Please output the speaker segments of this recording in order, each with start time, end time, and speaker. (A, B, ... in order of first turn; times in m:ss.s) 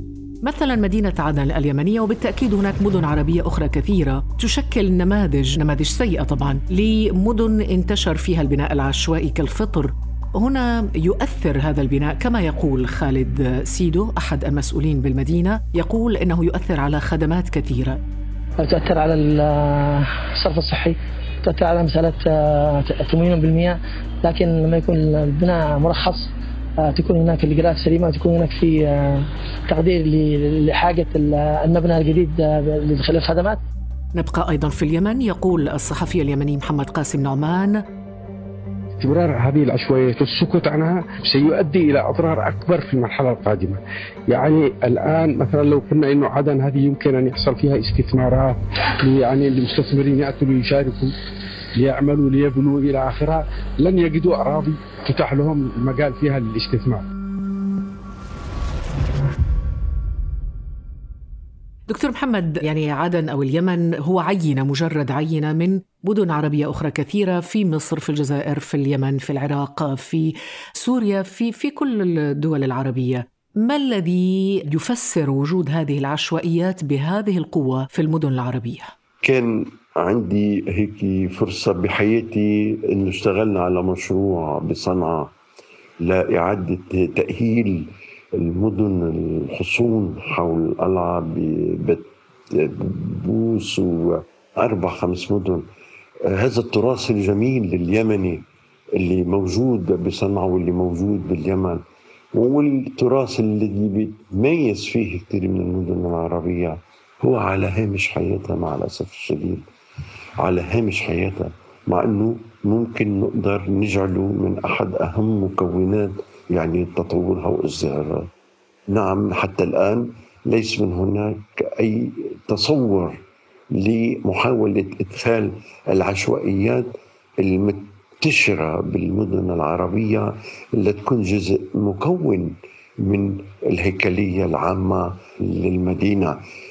0:00.4-0:18.0 A
0:18.6-0:26.3 B
0:26.8-0:33.6 B
0:34.1-0:37.8 A
0:39.0-0:51.1 C
0:51.8-0:57.0 C
1:01.9-1:18.9 A
1:19.2-1:25.3 D
1:26.0-1:35.6 D
1:36.3-1:38.4 D
1:39.0-1:41.8 D
1:42.3-1:49.6 D
1:50.4-1:58.3 D
1:58.9-2:03.2 D
2:03.8-2:06.9 D
2:07.4-2:16.4 D